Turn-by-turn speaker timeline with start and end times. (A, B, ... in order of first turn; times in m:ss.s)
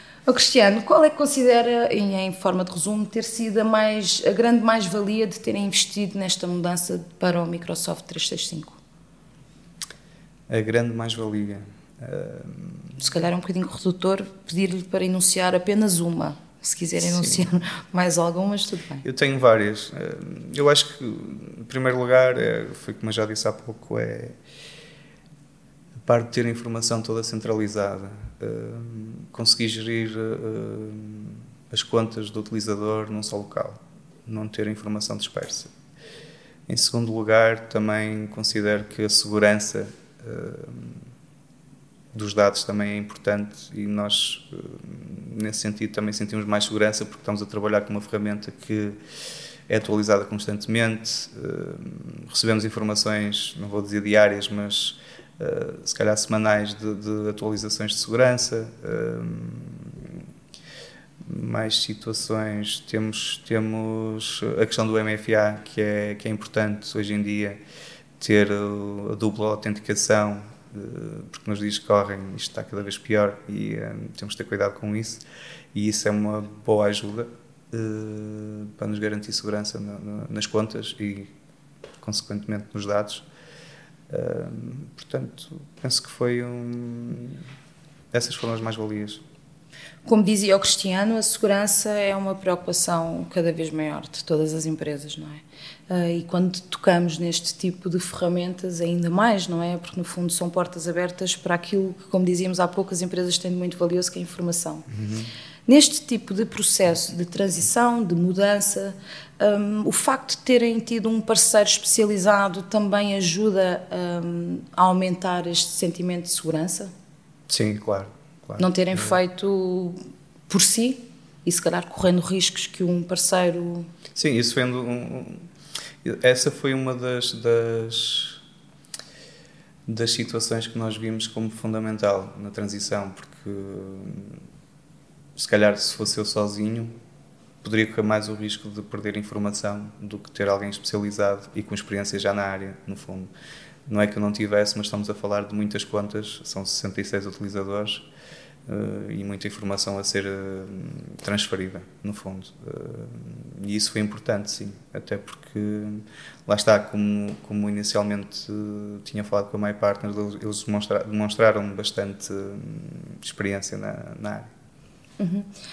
0:00.3-0:08.8 A
0:10.5-0:13.0 B
0:13.0-0:19.0 A
0:17.0-0:17.4 B
0:19.0-0:24.4 B
0:26.0-0:35.7 B
0:36.7-0:41.0 B
0:42.1-0:49.0 B
0:49.7-1:00.2 B
1:01.2-1:07.6 B
1:08.2-1:21.3 B
1:22.0-1:23.2 B
1:24.1-1:27.4 B
1:28.1-1:29.2 B
1:30.0-1:44.9 A
1:44.9-1:45.3 B
1:45.6-1:56.9 A
1:57.5-1:59.2 B
1:58.6-2:03.9 A
2:04.1-2:05.5 B
2:06.0-2:08.4 B
2:09.9-2:14.4 B
2:15.4-2:16.9 B
2:17.6-2:23.3 B
2:23.9-2:28.0 B
2:28.7-2:44.5 B
2:45.2-2:45.5 A